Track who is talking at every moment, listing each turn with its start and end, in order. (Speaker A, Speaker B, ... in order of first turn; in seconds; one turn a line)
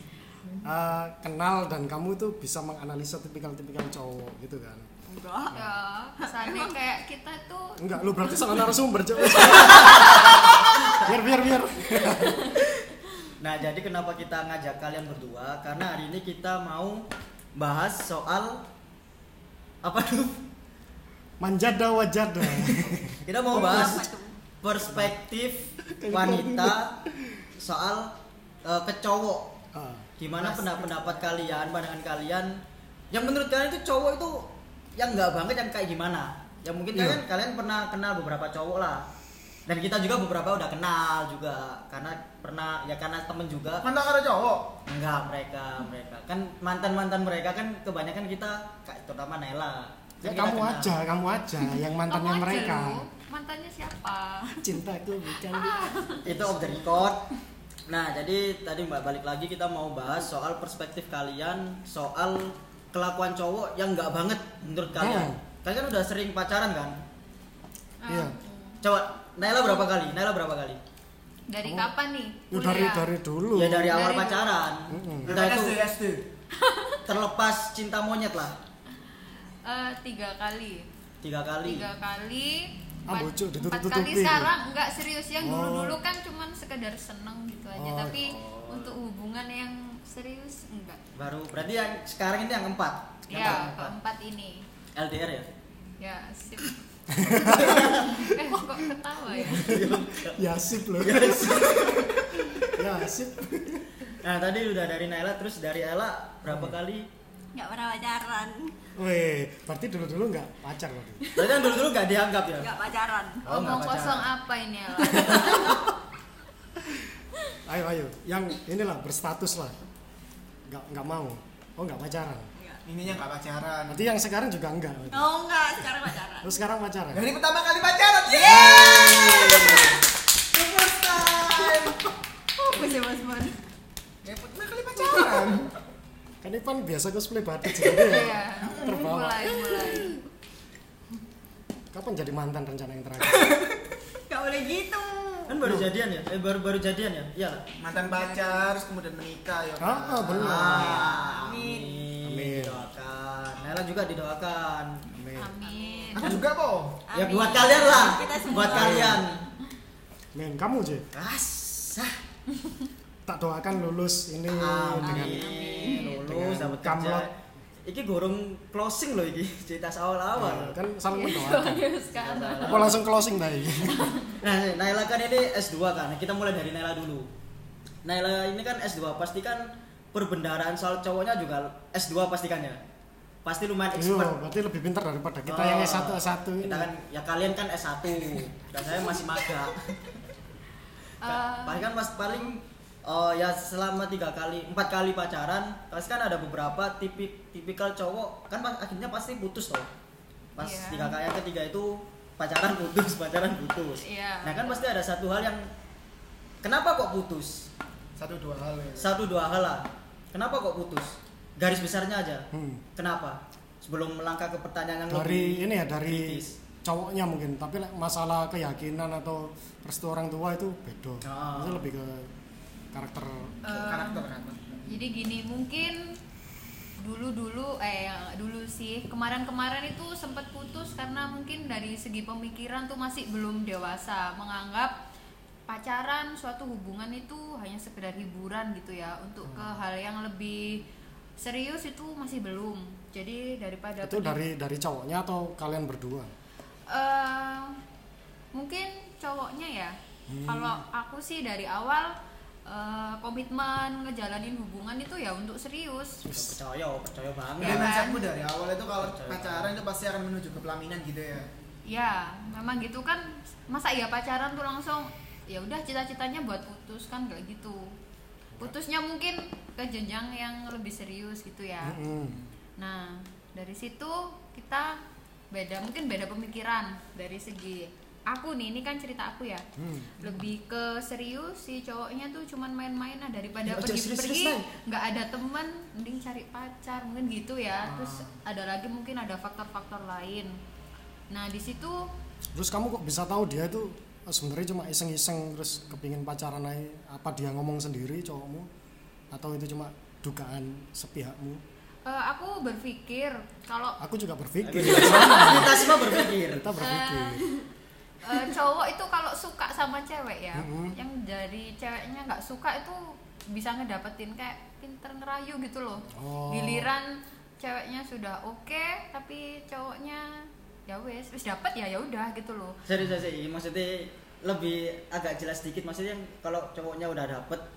Speaker A: 0.6-4.9
Speaker B: 5.1-5.6
Speaker A: 5.5-5.8
Speaker C: 5.5-8.1
Speaker B: 6.2-6.7
Speaker A: 7.8-12.6
Speaker B: 9.5-10.6
Speaker D: 9.7-11.1
Speaker D: 13.4-17.1
Speaker D: 17.6-18.6
Speaker D: 19.8-20.4
Speaker A: 21.4-24.0
Speaker D: 23.2-24.1
Speaker B: 23.5-24.4
Speaker D: 24.6-26.9
Speaker A: 24.8-25.1
Speaker A: 25.9-27.5
Speaker D: 27.6-28.1
Speaker D: 28.6-29.5
Speaker A: 29.7-30.1
Speaker D: 30.2-32.6
Speaker E: 30.4-31.5
Speaker D: 33.1-39.0
Speaker A: 36.9-37.2
Speaker D: 39.7-43.9
Speaker E: 43.8-44.8
Speaker D: 44.9-50.9
Speaker A: 50.2-53.0
Speaker C: 52.0-54.7
Speaker A: 54.6-56.5
Speaker C: 55.5-56.5
Speaker D: 56.2-57.3
Speaker D: 57.9-67.0
Speaker A: 65.0-65.4
Speaker C: 68.0-68.8
Speaker A: 68.1-68.4
Speaker D: 68.8-70.8
Speaker C: 71.5-73.1
Speaker A: 71.6-71.9
Speaker A: 72.5-74.0
Speaker D: 73.5-75.8
Speaker C: 73.9-74.6
Speaker A: 74.9-75.3
Speaker E: 75.2-76.2
Speaker C: 76.6-77.0
Speaker D: 77.0-78.5
Speaker C: 79.7-80.9
Speaker D: 81.2-81.9
Speaker C: 81.6-91.0
Speaker A: 83.1-84.5
Speaker A: 85.4-86.0
Speaker A: 87.8-88.4
Speaker D: 88.3-89.0
Speaker D: 91.2-93.9
Speaker C: 93.3-94.7
Speaker D: 95.0-95.5
Speaker C: 96.0-96.7
Speaker A: 97.1-98.9
Speaker D: 97.3-98.3
Speaker C: 97.4-99.7
Speaker A: 99.5-101.9
Speaker D: 99.5-100.5
Speaker D: 101.0-102.6
Speaker A: 102.7-103.8
Speaker D: 104.2-107.1
Speaker A: 106.5-106.8
Speaker B: 107.5-108.8
Speaker A: 109.0-111.2
Speaker B: 111.2-111.8
Speaker D: 111.3-112.7
Speaker B: 112.6-113.5
Speaker D: 113.5-114.3
Speaker C: 113.5-115.8
Speaker B: 115.2-115.8
Speaker A: 117.7-119.8
Speaker A: 120.7-122.5
Speaker B: 122.6-122.8
Speaker E: 122.9-124.1
Speaker A: 123.9-125.3
Speaker B: 125.1-126.5
Speaker A: 126.4-127.3
Speaker E: 127.1-130.0
Speaker B: 128.3-130.0
Speaker E: 130.5-132.1
Speaker B: 131.5-131.9
Speaker B: 132.6-133.6
Speaker C: 132.7-133.5
Speaker E: 134.2-135.7
Speaker B: 135.1-135.4
Speaker A: 136.4-139.7
Speaker B: 137.7-138.2
Speaker C: 138.0-140.2
Speaker B: 139.7-140.2
Speaker A: 141.9-143.5
Speaker B: 143.2-143.6
Speaker B: 144.3-145.6
Speaker D: 145.5-147.6
Speaker A: 145.6-145.9
Speaker E: 147.8-151.1
Speaker A: 149.8-151.0
Speaker D: 150.4-155.1
Speaker B: 151.1-152.1
Speaker A: 152.2-152.8
Speaker A: 155.2-155.5
Speaker C: 155.4-156.4
Speaker B: 155.6-156.4
Speaker E: 156.1-157.0
Speaker B: 157.1-159.2
Speaker D: 157.1-159.4
Speaker A: 158.6-159.2
Speaker A: 160.3-161.1
Speaker D: 161.1-162.2
Speaker A: 163.3-165.5
Speaker D: 164.6-167.3
Speaker B: 165.0-166.1
Speaker C: 165.4-166.3
Speaker A: 166.3-167.3
Speaker D: 167.8-170.8
Speaker A: 170.3-171.9
Speaker C: 171.1-173.0
Speaker D: 172.1-173.0
Speaker A: 172.7-174.1
Speaker C: 173.7-174.4
Speaker D: 174.3-177.3
Speaker D: 178.0-182.8
Speaker D: 183.4-184.3
Speaker A: 183.9-186.9
Speaker D: 185.5-190.0
Speaker C: 191.2-192.2
Speaker D: 191.2-199.9
Speaker D: 200.6-205.6
Speaker C: 200.6-201.2
Speaker C: 204.0-204.8
Speaker D: 206.6-207.7
Speaker E: 208.2-209.2
Speaker D: 209.0-216.6
Speaker A: 212.5-212.8
Speaker A: 215.1-222.3
Speaker D: 221.2-221.8
Speaker A: 222.9-223.9
Speaker C: 223.6-224.3
Speaker E: 223.8-224.8
Speaker C: 224.9-226.1
Speaker C: 227.0-234.9
Speaker C: 235.7-240.8
Speaker A: 239.5-239.7
Speaker C: 241.4-244.4
Speaker A: 244.0-246.3
Speaker C: 246.9-247.8
Speaker C: 248.5-252.1
Speaker A: 250.3-250.8
Speaker C: 252.7-256.2
Speaker A: 256.2-256.6
Speaker D: 256.3-257.9
Speaker E: 257.6-261.5
Speaker C: 257.6-258.3
Speaker D: 258.9-259.8
Speaker C: 261.9-267.9
Speaker C: 268.6-272.0
Speaker A: 271.8-272.4
Speaker C: 272.8-275.0
Speaker C: 275.5-279.7
Speaker A: 279.8-280.1
Speaker C: 280.2-290.5
Speaker A: 283.7-284.6
Speaker E: 287.9-288.3
Speaker C: 291.3-292.1
Speaker A: 292.5-298.7
Speaker A: 299.3-301.6
Speaker C: 302.1-304.0
Speaker A: 304.0-307.4
Speaker D: 304.6-306.7
Speaker C: 306.8-307.4
Speaker C: 308.2-322.8
Speaker A: 310.6-311.0
Speaker A: 316.1-316.9
Speaker D: 322.9-327.7